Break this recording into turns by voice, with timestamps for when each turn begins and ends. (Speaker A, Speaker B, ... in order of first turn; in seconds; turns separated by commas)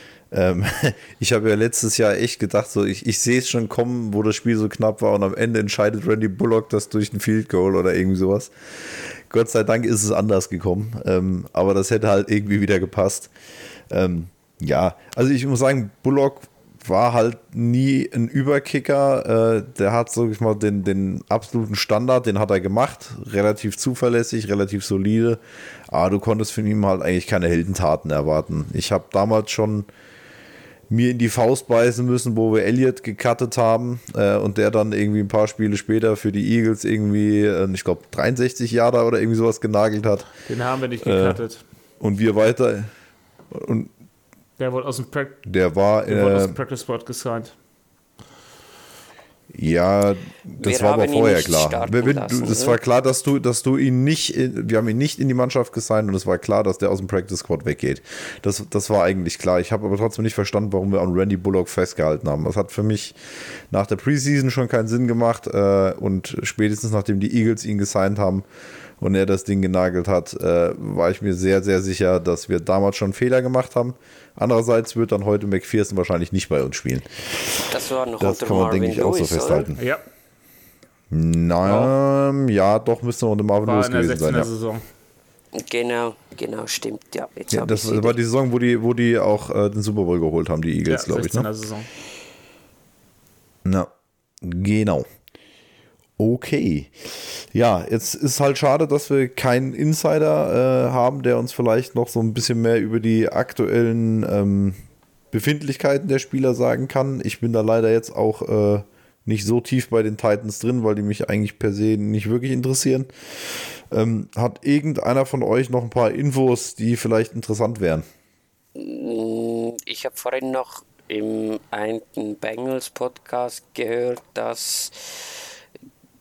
Speaker A: 0.3-13.3, Speaker A: 13.9-29.9, Speaker A: 30.9-40.3, Speaker B: 40.5-41.6, Speaker A: 41.0-41.4, Speaker A: 42.0-42.9, Speaker A: 43.5-43.9, Speaker B: 44.6-45.4, Speaker A: 45.4-46.6, Speaker B: 46.0-47.5, Speaker A: 49.5-63.2, Speaker C: 50.6-52.8, Speaker A: 63.7-68.5, Speaker A: 69.0-79.8, Speaker C: 77.7-79.7, Speaker B: 79.8-80.0, Speaker A: 81.1-84.5, Speaker B: 81.6-81.9, Speaker B: 83.6-84.8, Speaker C: 85.5-88.2, Speaker A: 87.5-91.5, Speaker B: 90.9-91.9, Speaker A: 93.6-93.9, Speaker A: 94.4-95.0, Speaker A: 96.2-104.8, Speaker A: 105.3-118.0, Speaker C: 118.7-125.4